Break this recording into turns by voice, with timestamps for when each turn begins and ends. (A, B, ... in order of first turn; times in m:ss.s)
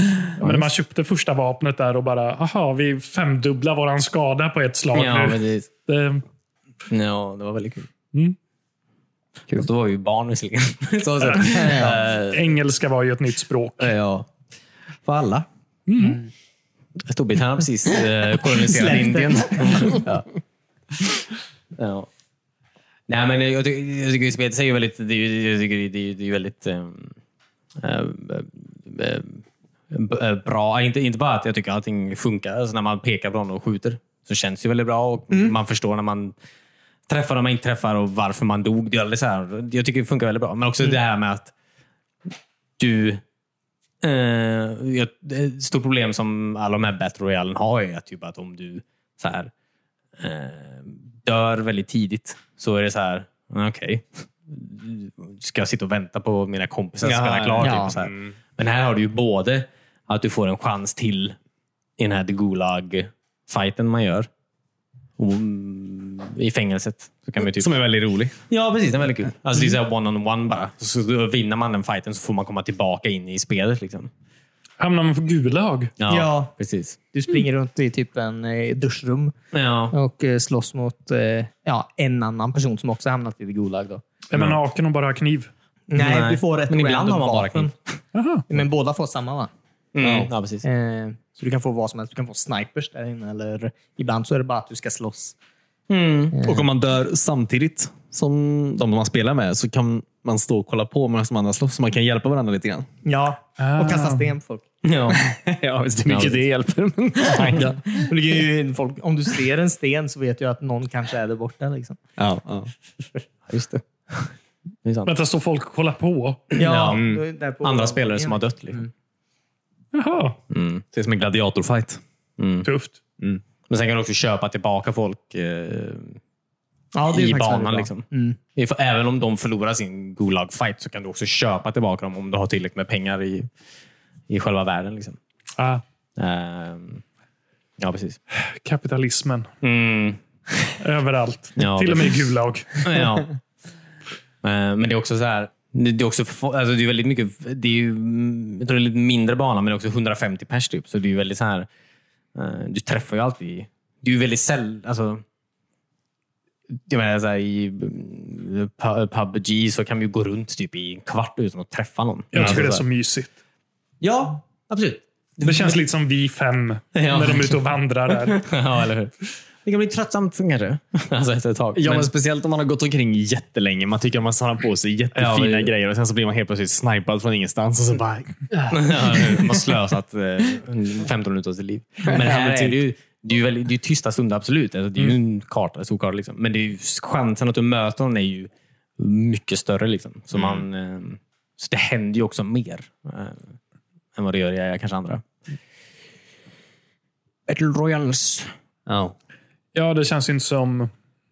0:00.4-0:06.2 A
0:04.9-0:05.7 B
0:06.9-0:07.9 B
0:09.5-0:12.5 B
0:11.2-0:13.9 A
0:11.5-0:12.0 C
0:13.8-0:14.3 B
0:15.0-0:15.5 B
0:15.9-0:16.2 A
0:17.0-0:20.3 B
0:18.4-0:20.1 C
0:21.8-0:22.1 B
0:23.1-0:27.1 B
0:27.8-0:36.3 B
0:37.1-0:41.5 B
0:42.8-0:43.2 B
0:44.0-0:49.5 B
0:50.2-1:01.4 B
0:57.0-0:58.3 D
0:57.6-0:57.9 C
1:02.0-1:04.3 B
1:05.2-1:07.7 B
1:07.4-1:08.4 D
1:08.5-1:14.1 B
1:14.8-1:15.9 A
1:16.0-1:17.0 B
1:16.1-1:16.5 C
1:17.1-1:19.3 C
1:19.5-1:20.0 B
1:19.9-1:24.0 C
1:24.3-1:25.5 A
1:25.9-1:27.7 C
1:26.0-1:27.7 B
1:28.1-1:28.4 A
1:28.5-1:29.5 C
1:29.9-1:30.6 B
1:30.0-1:30.3 D
1:30.6-1:35.3 C
1:35.9-1:36.4 B
1:36.3-1:36.6 C
1:36.4-1:42.9 D
1:43.0-1:44.6 C
1:43.6-1:44.3 A
1:44.8-1:45.2 B
1:45.1-1:48.0 D
1:46.0-1:46.4 B
1:47.3-1:52.0 C
1:52.2-1:52.7 D
1:53.5-1:54.3 B
1:54.8-1:55.1 B
1:55.0-1:56.5 A
1:56.5-1:58.8 B
1:56.6-1:58.9 C
1:59.9-2:00.4 A
2:00.5-2:00.8 B
2:00.9-2:02.0 D
2:02.4-2:02.7 B
2:02.6-2:03.0 A
2:03.7-2:06.2 B
2:06.9-2:08.4 C
2:07.1-2:13.5 B
2:14.3-2:15.2 B
2:15.6-2:15.8 A
2:16.2-2:17.0 B
2:17.8-2:18.2 B
2:18.3-2:19.5 A
2:19.6-2:20.2 B
2:20.8-2:22.8 A
2:21.6-2:22.2 B
2:22.8-2:23.4 B
2:24.4-2:31.7 B
2:32.3-2:35.2 B
2:36.9-2:42.8 B
2:42.3-2:43.3 A
2:44.0-2:45.8 B
2:45.4-2:48.4 A
2:47.0-2:47.6 B
2:48.2-2:52.1 B
2:51.7-2:58.7 D
2:55.1-2:55.7 B
2:58.6-3:13.5 B
3:02.1-3:02.8 D
3:14.1-3:15.2 B
3:17.5-3:18.5 B
3:18.9-3:19.1 D
3:19.7-3:20.9 A